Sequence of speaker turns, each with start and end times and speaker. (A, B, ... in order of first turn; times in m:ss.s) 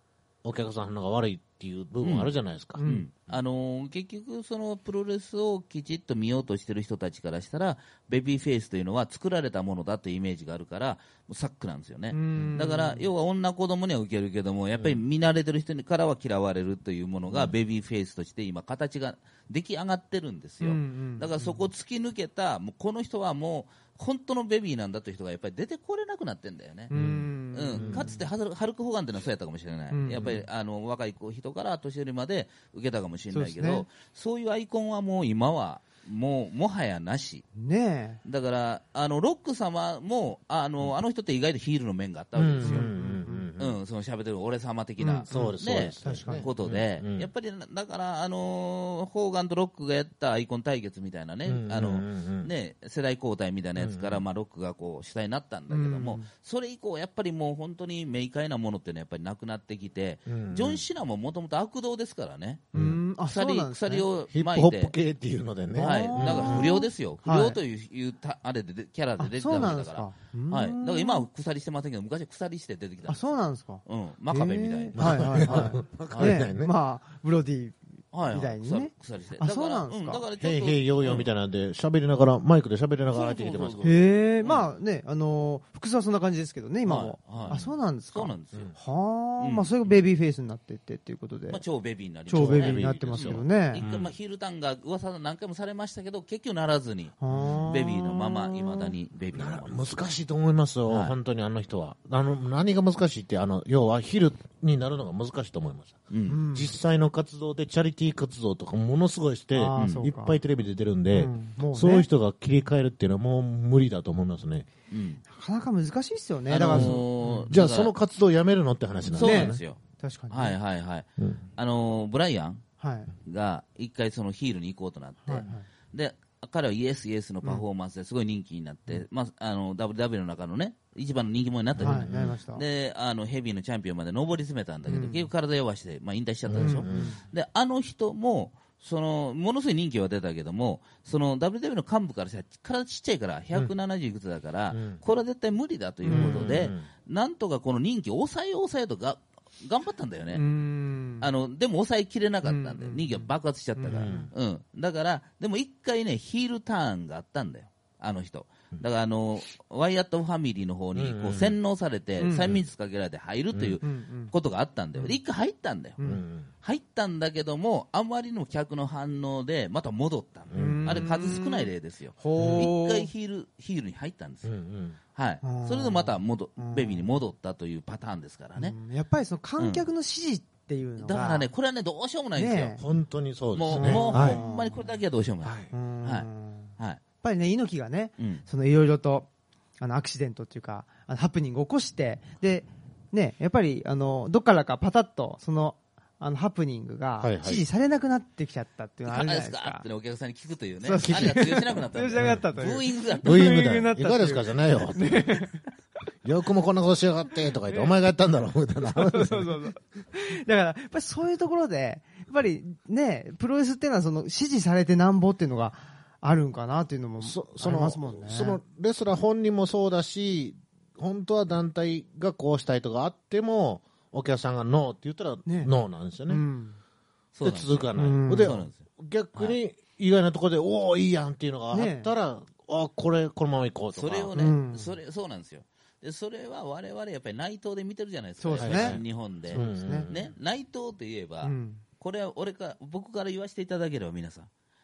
0:00.4-0:02.8 A
0:02.0-0:26.9 B
0:02.8-0:03.1 C
0:12.1-0:13.1 C
0:17.3-0:17.6 A
0:20.6-0:21.6 C
0:26.9-0:28.2 C
0:26.9-0:28.2 A
0:27.5-0:37.4 B
0:29.9-0:30.4 C
0:33.3-0:33.8 C
0:37.6-0:38.2 C
0:38.2-0:42.9 B
0:42.4-0:43.8 A
0:42.6-0:43.5 C
0:43.6-1:02.7 B
0:45.0-0:46.5 C
0:45.3-0:47.3 A
0:51.5-0:52.5 A
0:53.8-0:54.2 A
0:55.7-0:56.3 C
1:00.3-1:00.8 A
1:02.7-1:03.0 A
1:02.7-1:04.1 C
1:03.3-1:04.9 B
1:04.3-1:06.7 A
1:05.7-1:07.6 C
1:05.8-1:13.2 B
1:09.2-1:11.3 C
1:13.1-1:20.2 C
1:13.8-1:16.4 B
1:15.0-1:16.7 A
1:18.1-1:21.3 B
1:20.4-1:23.9 A
1:23.1-1:24.7 B
1:23.8-1:31.6 C
1:26.8-1:28.7 B
1:27.5-1:27.7 A
1:29.4-1:30.0 B
1:31.5-1:39.8 B
1:32.3-1:33.8 C
1:32.3-1:34.1 A
1:37.2-1:39.0 C
1:37.3-1:37.6 A
1:39.3-1:54.7 A
1:40.9-1:41.1 B
1:46.1-1:46.4 B
1:46.3-1:46.8 C
1:49.5-1:50.4 C
1:49.8-1:50.1 B
1:51.1-1:52.1 C
1:54.9-1:55.2 B
1:55.3-1:57.5 C
1:56.5-1:57.9 B
1:56.7-1:59.6 A
1:59.1-1:59.8 B
1:59.2-2:00.6 C
2:00.3-2:02.6 B
2:02.8-2:03.1 C
2:03.2-2:30.4 B
2:05.3-2:05.7 C
2:11.8-2:12.4 A
2:11.8-2:12.6 C
2:14.9-2:15.3 C
2:16.5-2:17.2 A
2:16.6-2:17.2 C
2:24.7-2:25.0 A
2:26.0-2:26.5 C
2:26.0-2:26.9 A
2:30.3-2:31.3 C
2:31.2-2:46.0 B
2:32.4-2:34.3 C
2:33.9-2:34.3 A
2:41.0-2:41.6 A
2:42.2-2:42.6 C
2:43.5-2:43.8 A
2:43.8-2:44.3 C
2:46.0-2:46.5 A
2:46.6-2:54.5 B
2:50.5-2:51.1 A
2:50.5-2:53.1 C
2:52.4-2:52.7 A
2:54.4-2:55.0 A
2:55.2-2:58.8 B
2:55.4-2:57.2 C
2:58.6-3:01.5 C
2:59.6-2:59.8 B
3:01.0-3:02.8 B
3:02.4-3:02.8 C
3:02.8-3:04.4 A
3:03.6-3:07.0 B
3:03.7-3:04.9 C
3:05.4-3:05.7 A
3:05.7-3:09.3 C
3:08.2-3:08.4 B
3:09.8-3:19.8 C
3:17.2-3:17.6 A
3:19.1-3:23.4 B
3:20.8-3:25.6 C
3:21.0-3:21.4 A
3:22.2-3:22.5 A
3:23.2-3:25.4 A
3:26.2-3:29.6 A
3:27.7-3:28.0 C
3:28.9-3:38.6 C
3:37.2-3:46.4 A
3:45.5-3:45.7 C
3:46.3-3:46.8 C
3:47.4-3:48.8 B
3:47.4-3:54.3 A
3:48.0-3:48.6 C
3:51.7-3:52.1 C
3:53.9-4:04.5 B
3:54.4-3:55.0 C
3:58.4-3:59.0 C
3:58.6-4:00.3 A
3:59.5-4:00.1 C
4:01.4-4:01.8 C